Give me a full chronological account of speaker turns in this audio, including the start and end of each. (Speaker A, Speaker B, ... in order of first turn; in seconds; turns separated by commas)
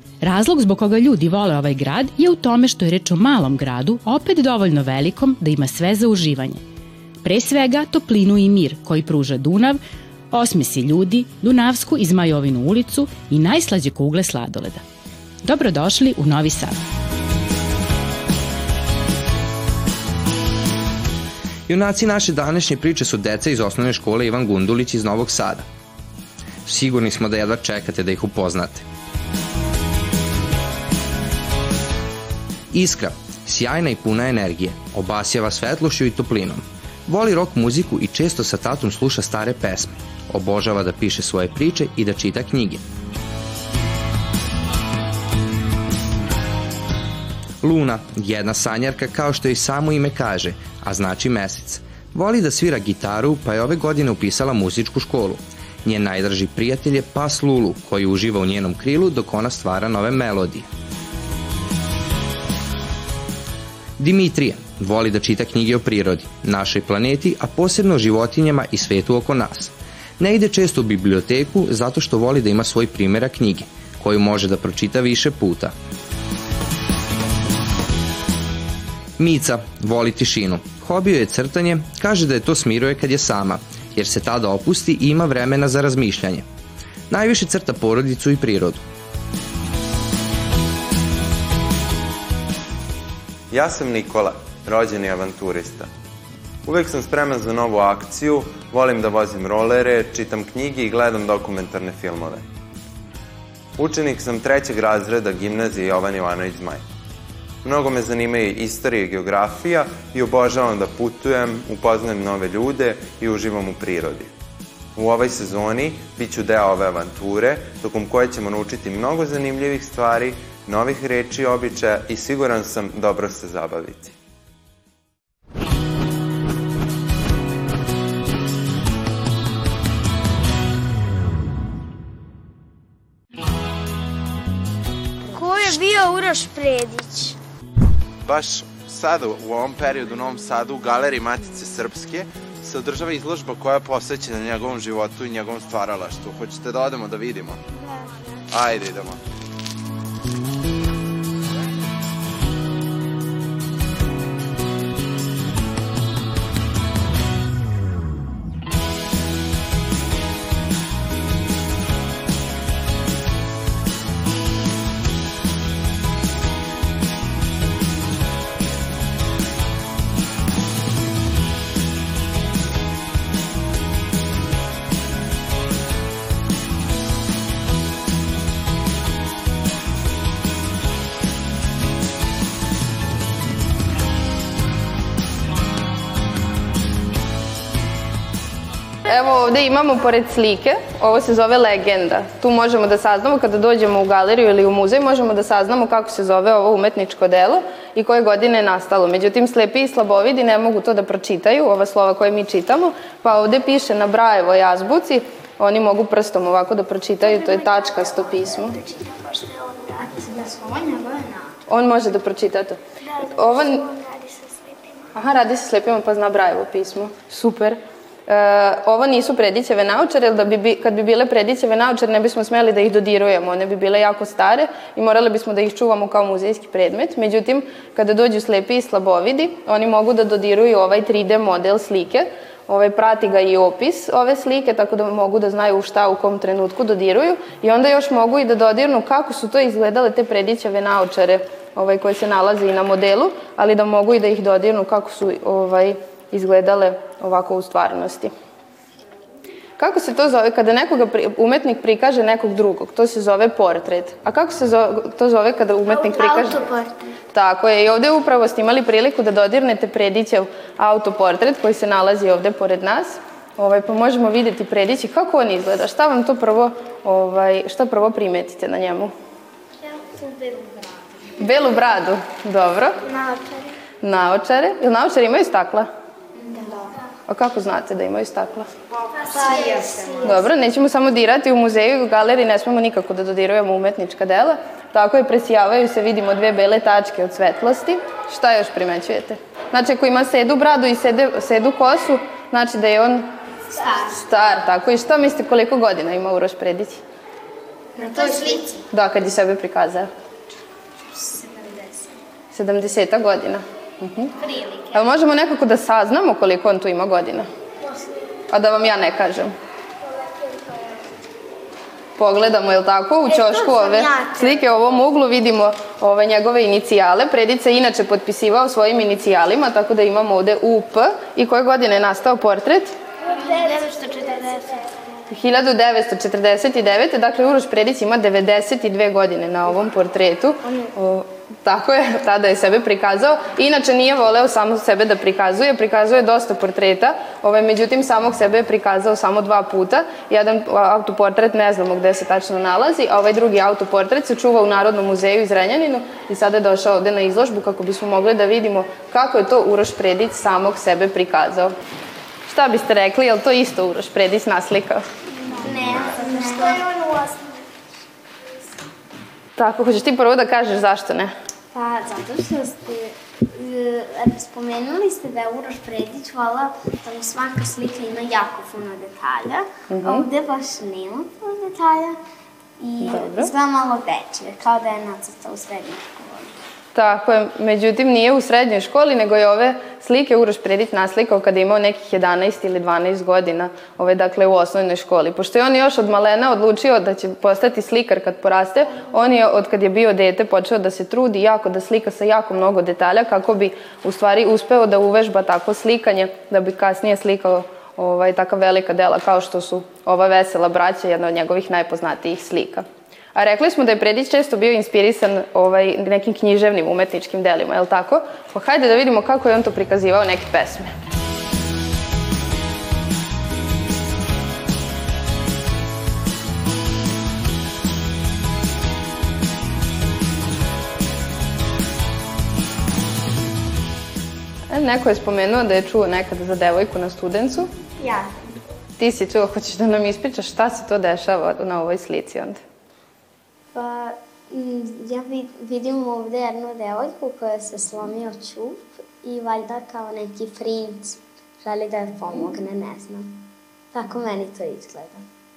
Speaker A: 0.2-6.6, Speaker A: 7.2-9.8, Speaker A: 10.3-14.8, Speaker A: 15.4-16.8, Speaker B: 21.7-25.6, Speaker B: 26.6-28.8, Speaker B: 32.7-42.8, Speaker B: 47.6-60.7, Speaker B: 64.0-75.7, Speaker B: 79.2-86.4, Speaker B: 87.1-88.8, Speaker C: 93.5-95.9, Speaker C: 96.6-102.4, Speaker C: 103.8-106.8, Speaker C: 107.6-114.3, Speaker C: 114.9-124.2, Speaker D: 135.3-137.3, Speaker E: 138.2-147.6, Speaker E: 148.5-149.2, Speaker F: 189.1-208.8, Speaker D: 207.2-211.5, Speaker F: 211.7-213.8, Speaker D: 213.8-214.7, Speaker F: 215.1-248.3, Speaker F: 249.8-256.6, Speaker D: 256.1-256.9, Speaker F: 257.3-269.1, Speaker D: 269.9-270.9, Speaker F: 271.4-273.0, Speaker D: 273.1-273.6, Speaker F: 274.0-275.9, Speaker D: 276.4-276.9, Speaker F: 277.3-278.7, Speaker D: 279.1-280.4, Speaker F: 280.2-293.2, Speaker D: 293.7-294.2, Speaker F: 294.1-297.0, Speaker D: 297.9-298.8, Speaker F: 298.9-300.1, Speaker D: 301.1-302.1, Speaker F: 302.5-304.3, Speaker D: 304.4-305.0, Speaker F: 304.9-307.4, Speaker F: 308.5-309.5, Speaker F: 312.2-322.9, Speaker D: 313.4-314.4, Speaker D: 323.4-324.9, Speaker F: 325.3-351.7, Speaker F: 352.4-355.0, Speaker D: 355.5-357.6, Speaker F: 359.6-361.3, Speaker D: 361.7-372.2, Speaker F: 369.9-370.3, Speaker D: 372.8-376.5, Speaker F: 373.0-373.5, Speaker F: 376.9-402.8, Speaker F: 403.3-410.9, Speaker F: 424.7-427.7, Speaker D: 428.0-428.4, Speaker F: 429.0-432.6, Speaker D: 433.7-445.2